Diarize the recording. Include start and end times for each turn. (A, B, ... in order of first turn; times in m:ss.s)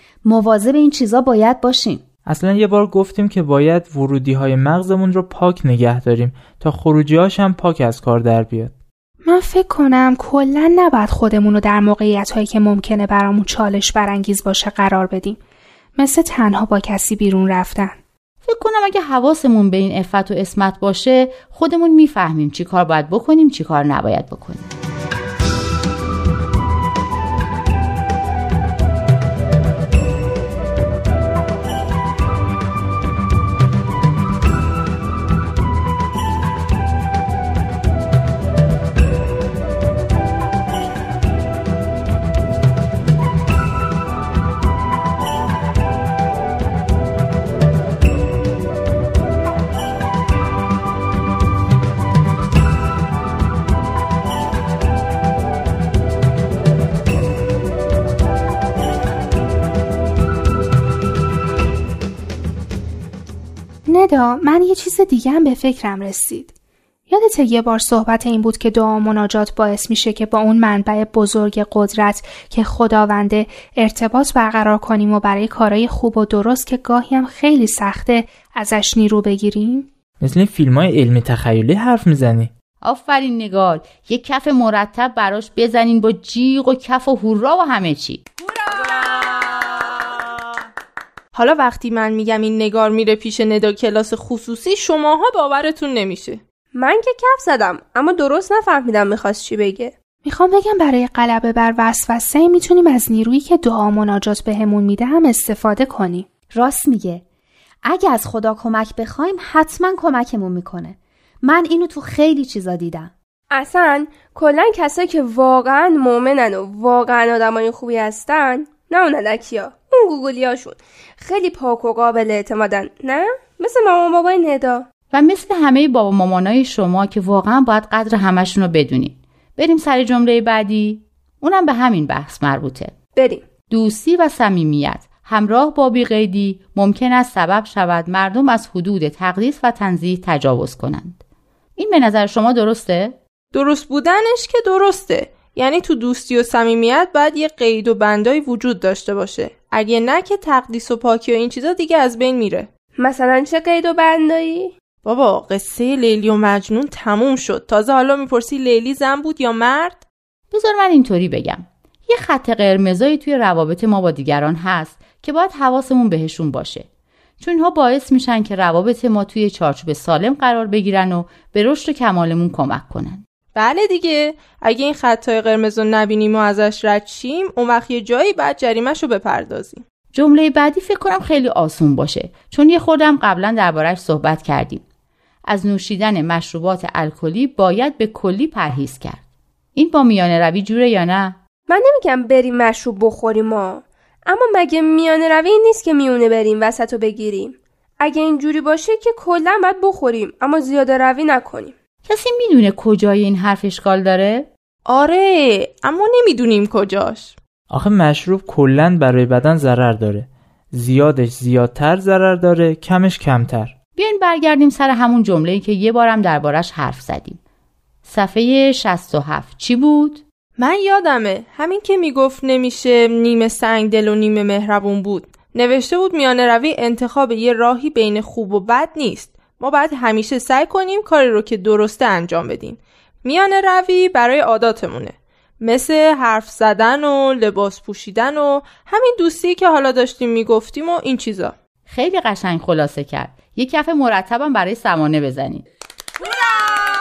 0:00.2-0:02.0 A
0:02.3-0:08.7 B
0:09.2-0:15.4 C
0:16.0-0:18.0 C
0:18.4-0:24.7 D
1:03.9-1:06.5 C
1:07.1-1:19.9 C
1:20.2-1:22.5 B
1:22.8-1:28.2 D
1:31.3-1:36.4 E
1:36.8-1:40.0 F
1:40.2-1:46.3 C
1:46.5-1:47.2 A
1:47.8-1:53.1 A
1:53.5-2:04.9 F
2:05.1-2:12.9 D
2:13.2-2:13.5 F
2:13.7-2:21.2 D
2:21.8-2:23.2 D
2:23.5-2:32.7 E
2:33.0-2:34.7 F
2:35.0-2:40.0 E
2:40.5-2:46.9 D
2:47.4-2:53.2 D
2:53.6-2:59.8 E
3:00.1-3:04.8 D
3:05.5-3:09.2 D
3:09.8-3:11.4 D
3:11.7-3:21.8 F
3:22.1-3:24.5 D
3:24.9-3:27.4 E
3:27.7-3:33.7 B
3:34.0-3:37.4 D
3:38.0-3:40.2 D
3:40.6-4:01.6 E
4:01.9-4:05.6 D